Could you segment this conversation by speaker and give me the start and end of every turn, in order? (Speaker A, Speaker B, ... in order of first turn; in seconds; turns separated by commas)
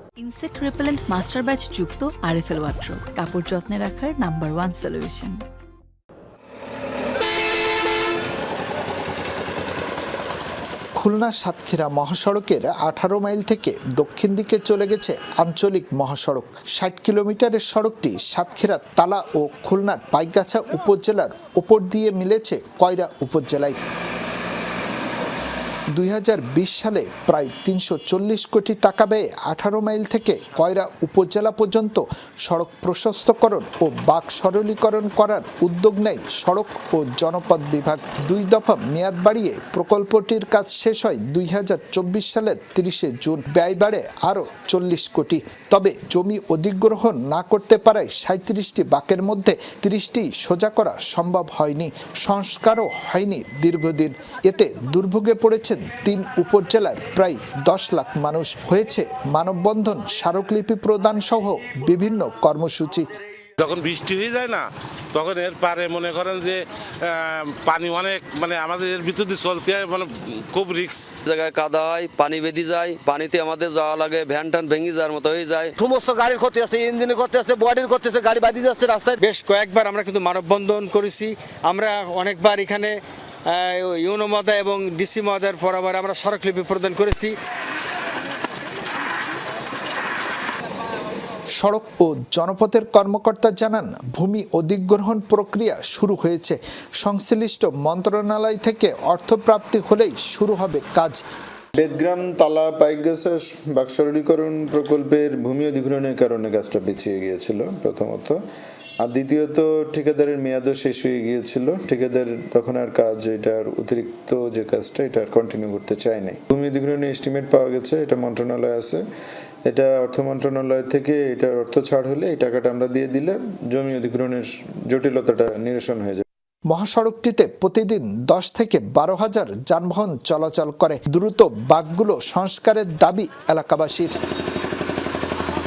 Speaker A: 0.2-5.4, Speaker B: 11.0-23.8, Speaker B: 25.9-63.0, Speaker C: 63.6-71.1, Speaker D: 71.2-75.7, Speaker E: 75.8-79.2, Speaker F: 79.2-87.3, Speaker B: 91.6-101.2, Speaker G: 101.8-108.3, Speaker G: 109.0-119.0, Speaker G: 119.7-126.2, Speaker B: 126.7-134.2